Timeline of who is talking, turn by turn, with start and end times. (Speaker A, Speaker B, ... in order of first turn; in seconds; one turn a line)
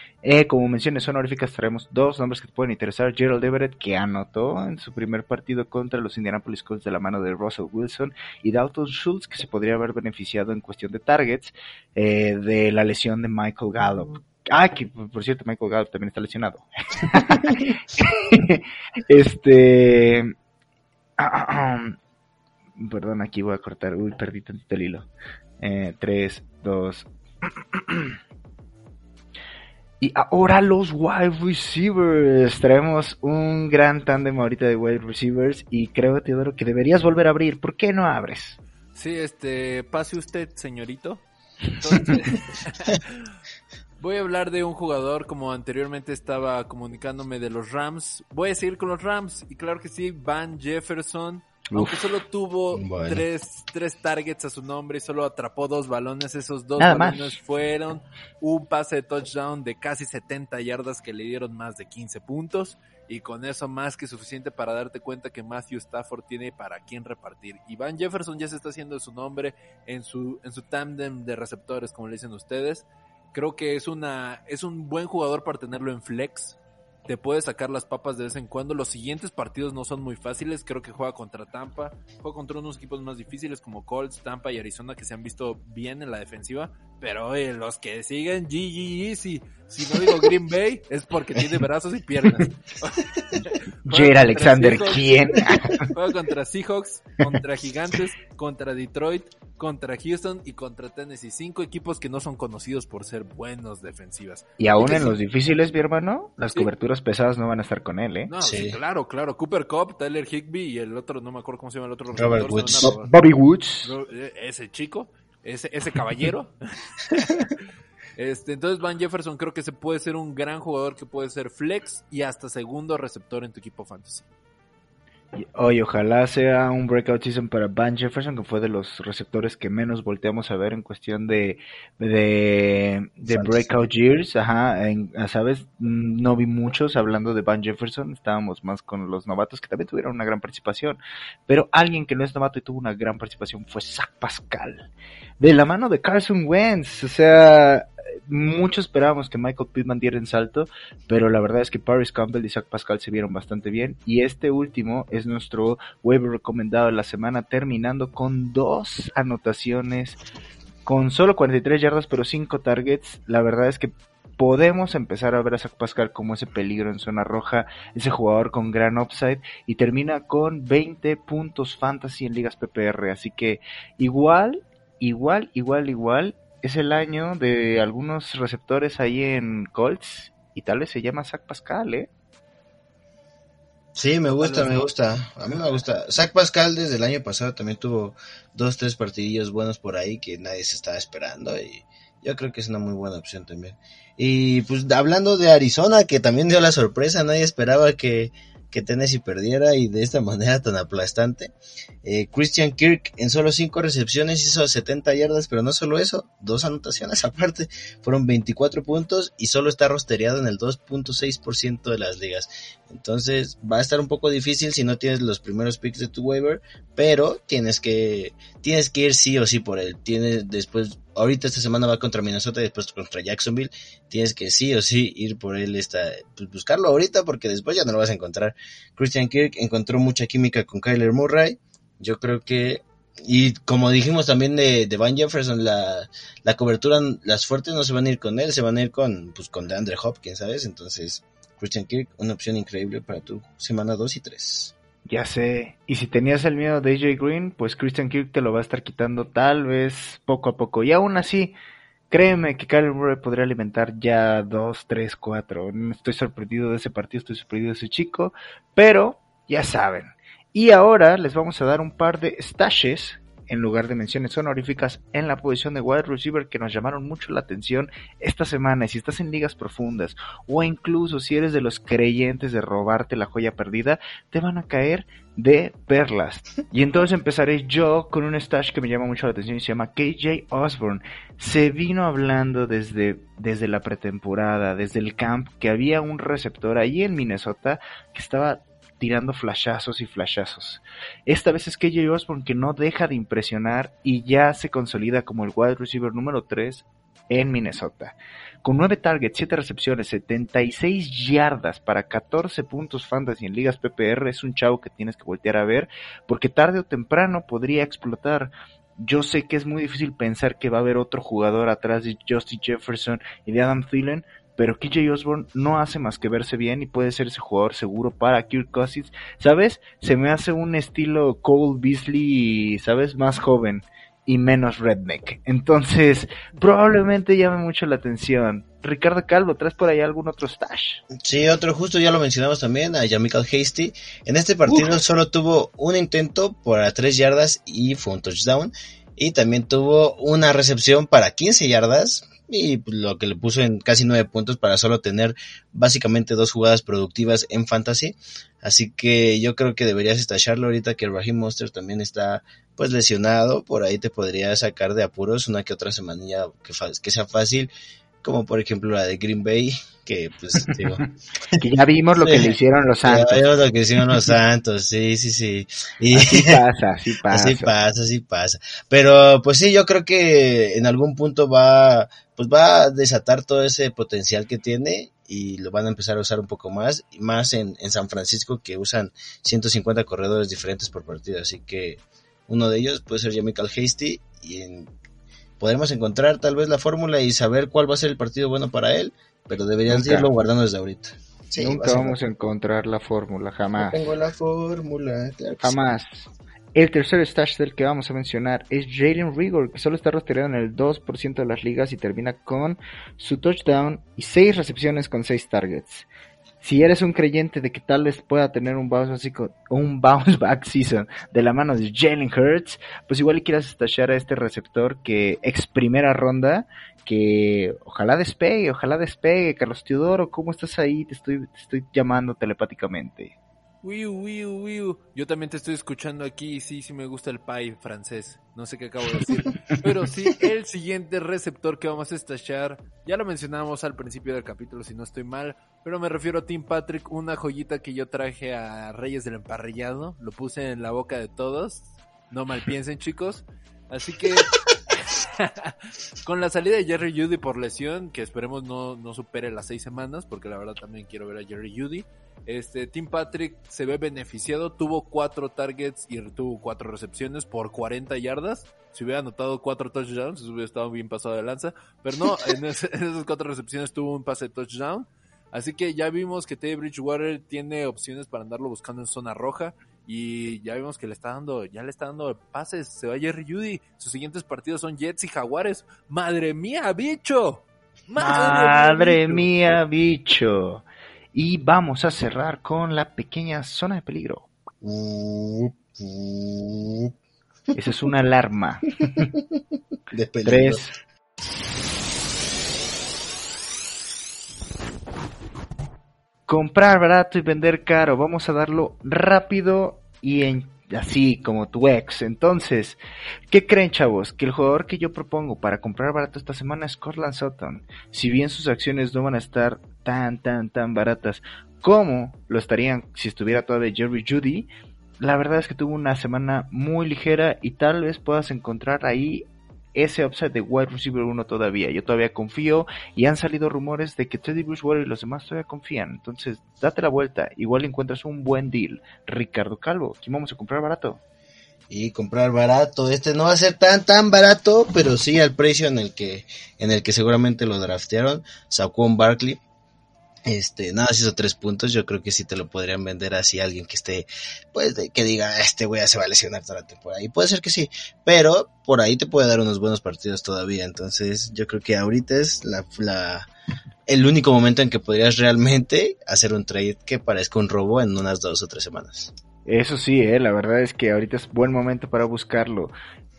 Speaker A: 0.2-20.3
Speaker A: 21.2-21.9
Speaker A: 22.8-25.1
Speaker A: 25.6-28.1
Speaker A: 30.0-38.6
Speaker B: 38.9-41.2
Speaker B: 41.8-43.3
Speaker A: 41.9-42.2
Speaker B: 44.0-105.2
Speaker A: 51.7-52.1
Speaker C: 52.7-53.2
Speaker A: 56.8-57.4
Speaker A: 93.9-95.9
Speaker A: 104.6-108.3
Speaker B: 108.3-113.1
Speaker C: 108.4-108.8
Speaker C: 112.2-113.0
Speaker A: 112.7-113.9
Speaker B: 113.8-117.6
Speaker B: 118.2-124.3
Speaker A: 125.3-144.9
Speaker C: 133.3-133.8
Speaker A: 145.4-160.2
Speaker A: 160.8-182.1
Speaker C: 183.9-244.7
Speaker B: 184.4-184.9
Speaker A: 245.1-251.5
Speaker A: 252.1-331.0
Speaker C: 331.2-357.7
Speaker A: 334.7-334.9
Speaker C: 358.2-361.6
Speaker A: 360.7-361.0
Speaker A: 361.6-363.5
Speaker C: 362.2-366.6
Speaker A: 366.1-367.7
Speaker C: 367.3-384.9
Speaker C: 385.6-392.2
Speaker A: 389.9-390.3
Speaker A: 391.6-394.0
Speaker C: 393.8-395.8
Speaker A: 395.6-406.1
Speaker A: 406.6-423.3
Speaker B: 423.8-479.5
Speaker A: 478.2-484.5
Speaker C: 484.8-487.1
Speaker A: 487.7-489.2
Speaker C: 490.1-490.8
Speaker A: 490.4-490.9
Speaker A: 496.5-503.0
Speaker A: 503.5-514.7
Speaker A: 515.2-531.2
Speaker C: 531.9-539.6
Speaker C: 540.5-553.5
Speaker C: 554.1-559.3
Speaker A: 559.6-562.9